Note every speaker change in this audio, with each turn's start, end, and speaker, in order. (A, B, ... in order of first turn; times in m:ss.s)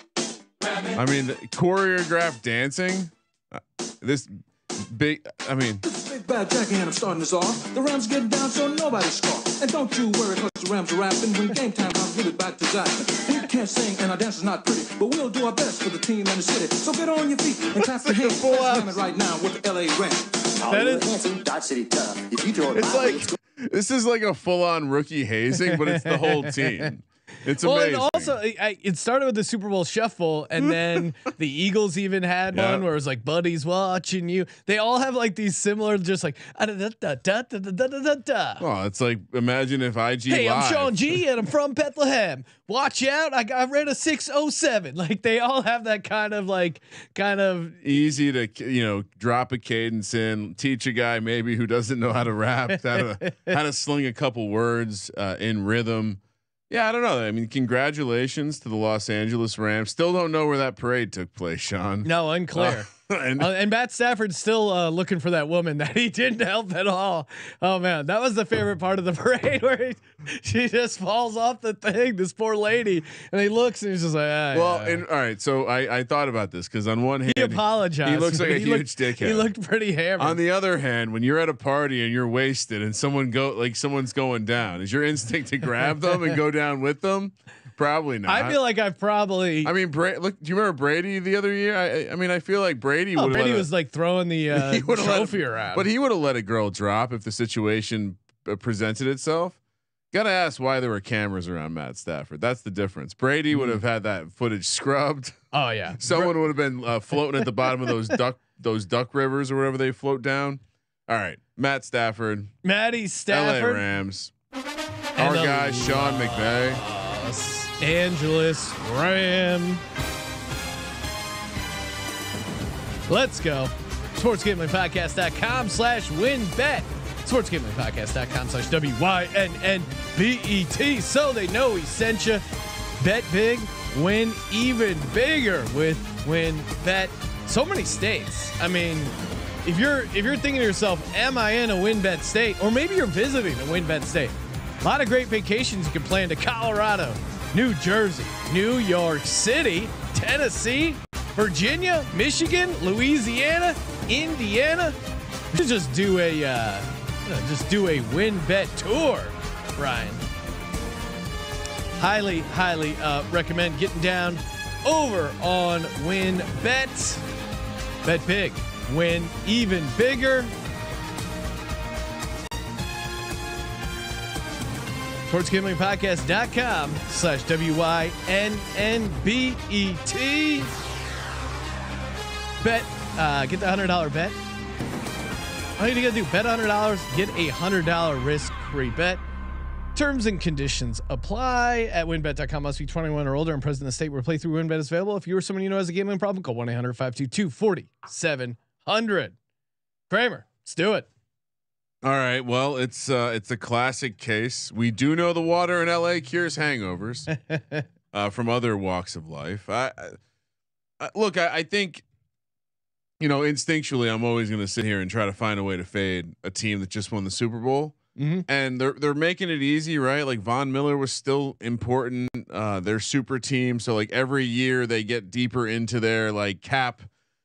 0:00.9-0:05.8 A
0:05.8-0:20.3 B
0:17.8-0:18.9 A
0:20.6-0:23.3 C
0:20.7-0:21.1 D
0:22.7-0:28.4 A
0:25.7-0:26.6 D
0:27.6-0:38.6 D
0:32.5-0:32.8 A
0:38.6-0:41.2 A
0:40.3-0:47.8 D
0:47.8-1:03.5 A
0:53.2-0:53.6 D
1:02.0-1:15.0 D
1:14.5-1:19.5 A
1:17.2-1:20.4 D
1:20.2-1:28.6 A
1:28.2-1:29.7 D
1:29.6-1:33.7 A
1:33.2-1:35.8 D
1:34.5-1:39.6 A
1:40.1-1:45.4 A
1:43.5-1:43.8 D
1:45.5-1:46.4 D
1:46.0-1:52.5 A
1:52.6-1:53.8 D
1:53.3-1:54.3 A
1:55.1-1:56.8 A
1:55.2-1:59.8 D
2:03.1-2:12.4 D
2:13.0-2:19.1 D
2:19.6-2:35.0 D
2:35.5-2:40.2 D
2:42.0-2:47.2 D
2:48.0-2:50.5 D
2:55.3-3:00.7 D
3:02.6-3:04.4 D
3:05.8-3:09.2 D
3:09.9-3:19.4 D
3:20.1-3:21.1 D
3:22.0-3:27.3 A
3:27.3-3:27.8 D
3:28.1-3:30.2 A
3:31.0-3:32.0 A
3:33.2-3:38.0 A
3:38.2-3:38.4 D
3:38.5-3:47.1 A